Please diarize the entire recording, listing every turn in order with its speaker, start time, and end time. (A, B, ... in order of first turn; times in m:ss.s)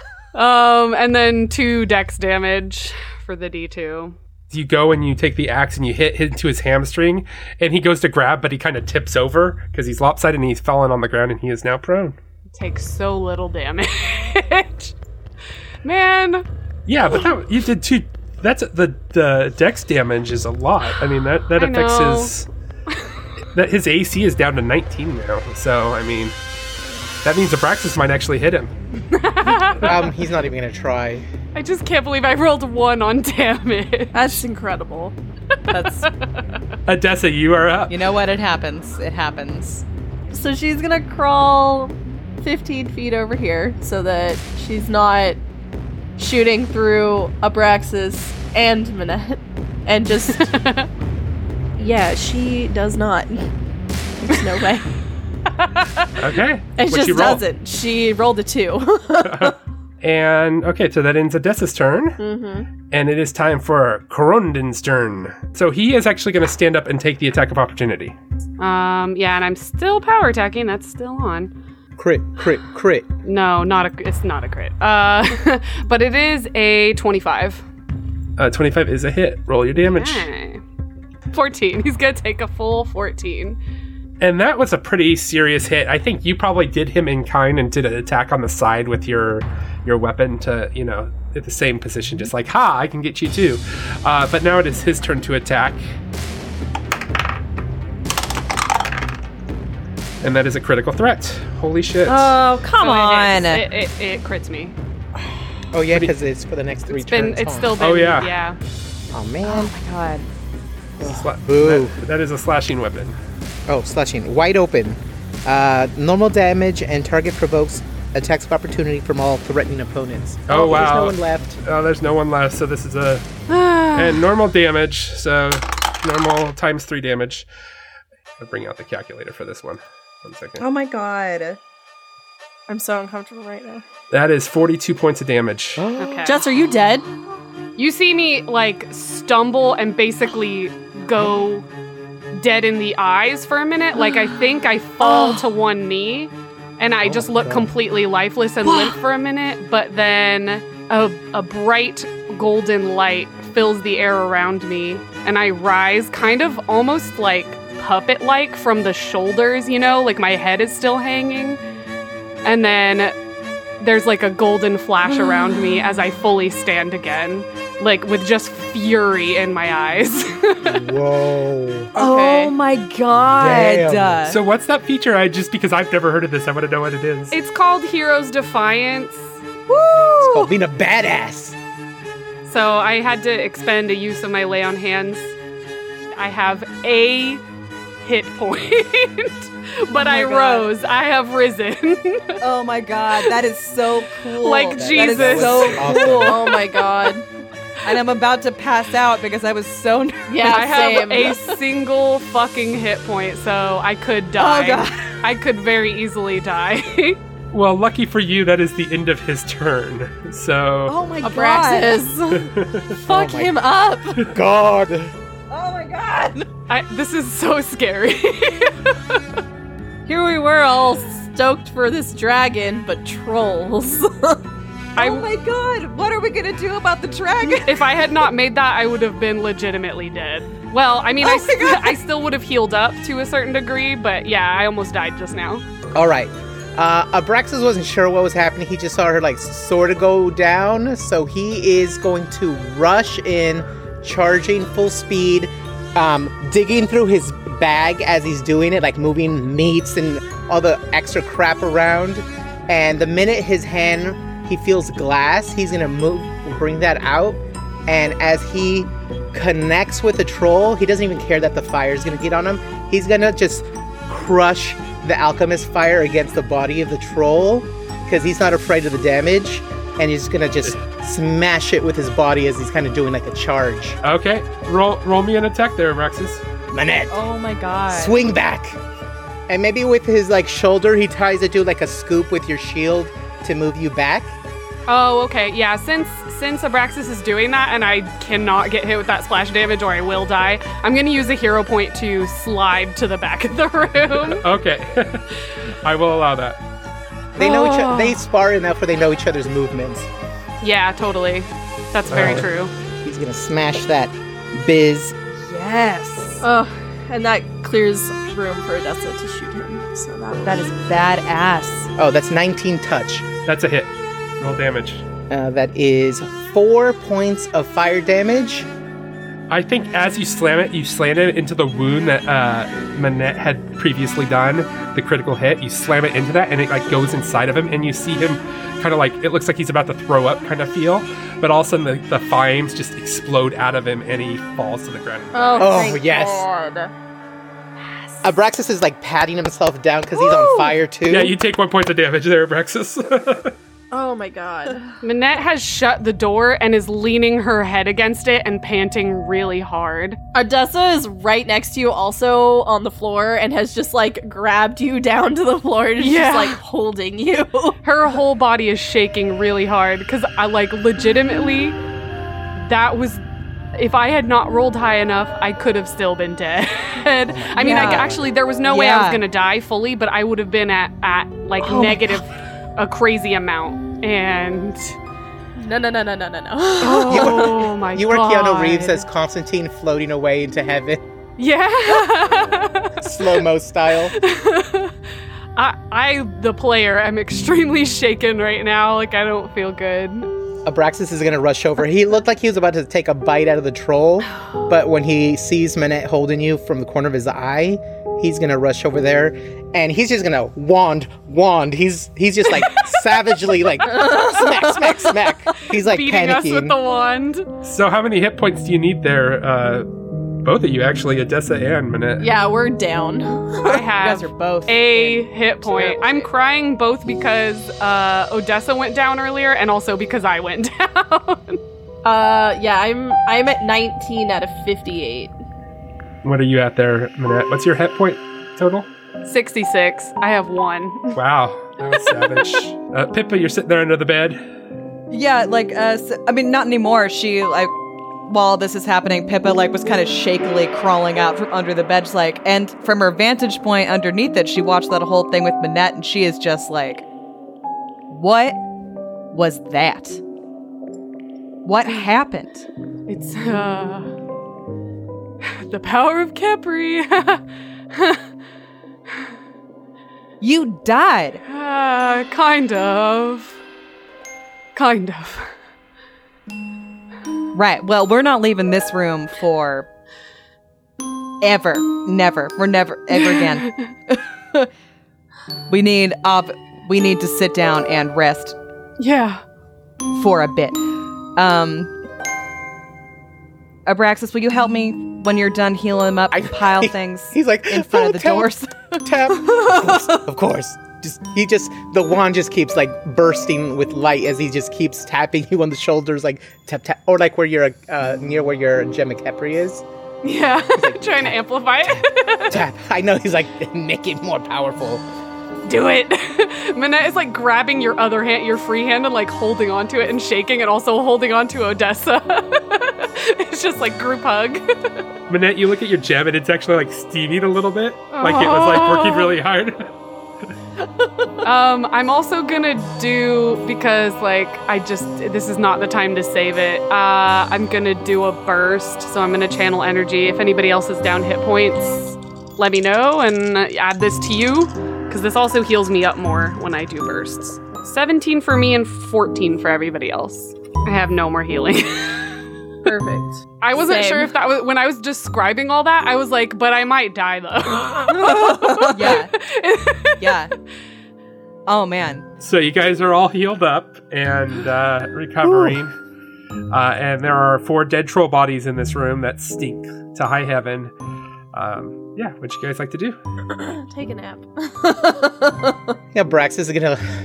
0:00.3-0:04.2 A
0:04.5-0:12.2 B
0:12.5-0:14.9 A
0:15.8-0:16.4 A
0:16.9-0:22.5 B
0:21.6-0:22.3 A
0:23.5-0:26.4 B
0:27.2-0:28.7 B
0:29.1-0:30.0 A
0:29.8-0:31.3 C
0:31.6-0:34.4 A
0:34.1-0:35.2 D
0:35.7-0:36.4 A
0:36.9-0:38.0 B
0:37.9-0:39.8 E
0:40.3-0:45.4 D
0:46.2-0:50.5 D
0:50.3-0:50.9 A
0:51.8-0:53.5 D
0:54.2-0:54.9 D
0:55.5-0:56.2 A
0:56.2-0:57.4 B
0:56.8-0:59.6 D
0:59.2-1:02.2 B
1:02.2-1:02.7 D
1:02.9-1:08.2 B
1:08.6-1:11.5 A
1:12.0-1:13.1 C
1:13.2-1:17.6 A
1:18.4-1:20.3 B
1:19.8-1:20.6 A
1:21.3-1:23.6 A
1:24.2-1:35.8 B
1:40.2-1:42.4 B
1:42.1-1:43.6 E
1:42.8-1:44.8 A
1:45.7-1:47.7 C
1:47.0-1:48.6 A
1:47.8-1:48.3 B
1:49.1-1:49.7 C
1:49.4-1:50.3 E
1:51.0-1:51.9 C
1:51.0-1:53.2 B
1:53.7-2:01.6 C
2:00.5-2:03.3 B
2:03.5-2:04.2 A
2:03.9-2:07.5 B
2:08.4-2:10.6 B
2:10.6-2:11.6 E
2:12.7-2:13.8 D
2:14.1-2:15.9 B
2:16.0-2:16.5 A
2:16.2-2:17.1 D
2:17.8-2:21.7 A
2:22.3-2:41.6 A
2:25.0-2:25.4 E
2:27.0-2:27.7 C
2:28.6-2:29.0 E
2:42.4-2:43.2 A
2:43.8-2:50.9 A
2:50.6-2:51.9 C
2:52.0-2:52.5 D
2:52.0-2:54.4 E
2:53.4-2:54.2 C
2:54.3-2:57.4 B
2:57.3-2:59.4 A
2:59.7-3:00.5 E
3:00.2-3:01.6 C
3:02.4-3:05.3 A
3:06.1-3:07.4 A
3:08.0-3:12.4 A
3:09.9-3:10.7 E
3:12.4-3:16.6 E
3:14.3-3:16.0 A
3:14.7-3:16.4 C
3:16.1-3:17.2 D
3:17.8-3:20.8 E
3:20.3-3:21.4 D
3:20.4-3:27.2 A
3:24.4-3:25.2 E
3:27.5-3:31.0 B
3:30.9-3:32.0 E
3:31.2-3:34.3 D
3:32.3-3:32.9 B
3:33.1-3:33.6 C
3:34.2-3:35.1 C
3:35.5-3:36.5 E
3:36.7-3:39.2 A
3:40.1-3:44.4 D
3:45.0-3:47.8 E
3:45.0-3:45.2 A
3:47.5-3:55.6 A
3:51.2-3:52.0 E
3:56.0-4:34.0 C
4:34.0-4:36.4 B
4:36.7-4:37.2 C
4:37.1-4:38.2 E
4:37.9-4:38.8 C
4:39.5-4:44.4 C
4:44.9-4:54.4 A
4:54.2-4:56.6 B
4:57.4-5:00.1 C
4:57.4-4:58.2 A
5:00.6-5:02.7 A
5:02.1-5:02.4 B
5:02.1-5:05.2 C
5:05.4-5:06.4 E
5:06.4-5:10.6 D
5:10.4-5:11.9 E
5:12.0-5:13.3 C
5:13.5-5:15.0 B
5:15.3-5:18.7 C
5:19.5-5:35.8 B
5:35.3-5:36.9 D
5:35.6-5:36.5 C
5:38.2-5:41.4 C
5:40.2-5:40.7 D
5:41.1-5:43.6 B
5:43.9-5:45.0 D
5:45.0-5:50.2 A
5:50.3-5:57.8 D
5:56.0-5:56.6 A
5:57.8-6:01.8 A
6:02.6-6:03.2 A
6:03.8-6:14.9 A
6:07.3-6:08.2 C
6:07.6-6:08.1 E
6:08.6-6:09.2 E
6:11.6-6:12.2 E
6:15.6-6:17.6 D
6:16.8-6:17.5 E
6:17.0-6:19.0 A
6:17.1-6:21.0 C
6:21.4-6:23.1 A
6:23.0-6:24.2 C
6:24.1-6:24.9 A
6:25.6-6:30.3 A
6:30.6-6:46.8 C
6:43.8-6:45.1 D
6:45.7-6:47.5 A
6:47.6-6:49.9 B
6:50.4-6:52.3 B
6:52.2-6:53.8 D
6:53.6-7:01.6 A
6:53.9-6:56.3 E
7:02.0-7:05.3 D
7:06.2-7:08.9 B
7:09.2-7:11.2 A
7:11.1-7:14.4 B
7:15.1-7:17.7 E
7:18.3-7:27.0 E
7:28.1-7:28.6 E
7:29.3-7:30.2 E
7:31.6-7:32.7 E
7:33.1-7:34.1 A
7:35.4-7:37.4 A
7:37.9-7:38.2 A
7:40.4-7:41.4 E
7:41.5-7:43.6 A
7:44.8-7:45.5 A
7:47.5-7:49.9 E
7:51.4-7:54.7 E
7:53.1-7:53.9 A
7:55.7-7:58.6 E
7:59.0-7:59.4 A
8:00.1-8:00.8 E
8:01.4-8:01.9 E
8:03.9-8:10.2 E
8:06.3-8:08.5 C
8:09.0-8:19.8 C
8:20.2-8:22.6 A
8:20.8-8:25.0 C
8:25.7-8:35.0 A
8:35.3-8:39.9 B
8:38.1-8:39.3 A
8:41.4-9:02.4 A
9:02.8-9:04.3 D
9:03.6-9:10.4 A
9:08.8-9:09.3 E
9:10.2-9:10.5 E
9:11.7-9:12.2 E
9:12.4-9:15.9 B
9:15.4-9:15.8 C
9:16.7-9:20.9 B
9:21.5-9:23.2 B
9:23.5-9:25.9 D
9:26.1-9:27.0 C